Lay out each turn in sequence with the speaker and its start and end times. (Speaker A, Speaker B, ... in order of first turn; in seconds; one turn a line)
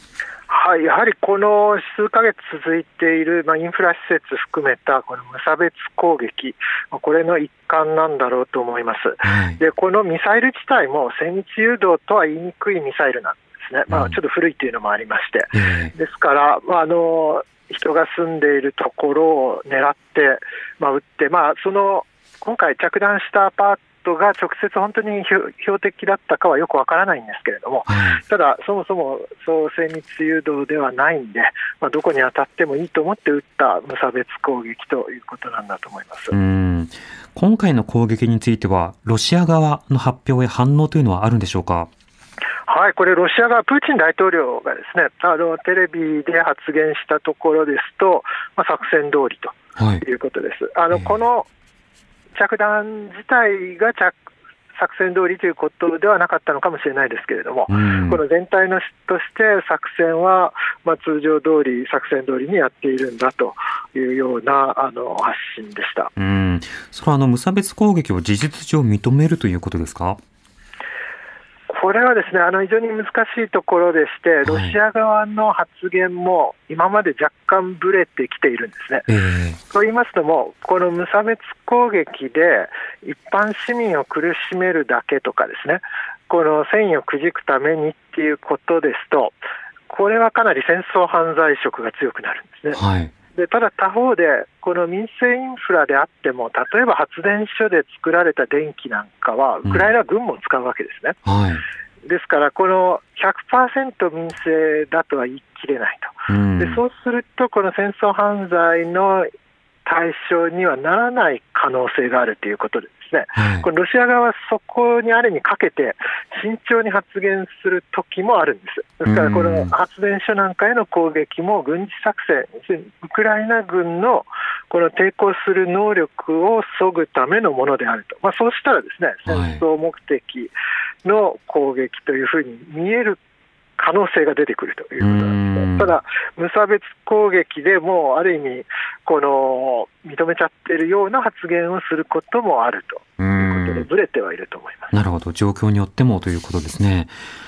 Speaker A: 0.5-36.4
Speaker B: 9.2-9.6
Speaker B: 13.9-14.2
Speaker B: 15.5-15.9
Speaker B: 27.9-28.2
Speaker B: 36.3-41.9
Speaker A: 42.7-51.5
Speaker B: 49.8-50.0
Speaker A: 52.3-54.2
Speaker A: 54.8-66.1
Speaker B: 57.7-58.2
Speaker B: 66.2-70.2
Speaker A: 71.7-79.1
Speaker B: 74.5-74.8
Speaker B: 79.1-79.6
Speaker A: 79.7-89.3
Speaker A: 89.9-92.8
Speaker B: 92.7-93.1
Speaker A: 93.3-101.2
Speaker B: 101.2-101.6
Speaker A: 102.0-109.3
Speaker B: 106.3-106.8
Speaker A: 109.8-130.5
Speaker B: 113.3-113.7
Speaker B: 119.0-119.7
Speaker B: 129.3-129.6
Speaker A: 131.0-133.2
Speaker A: 133.8-144.9
Speaker B: 135.0-135.9
Speaker B: 143.2-143.9
Speaker B: 144.9-147.1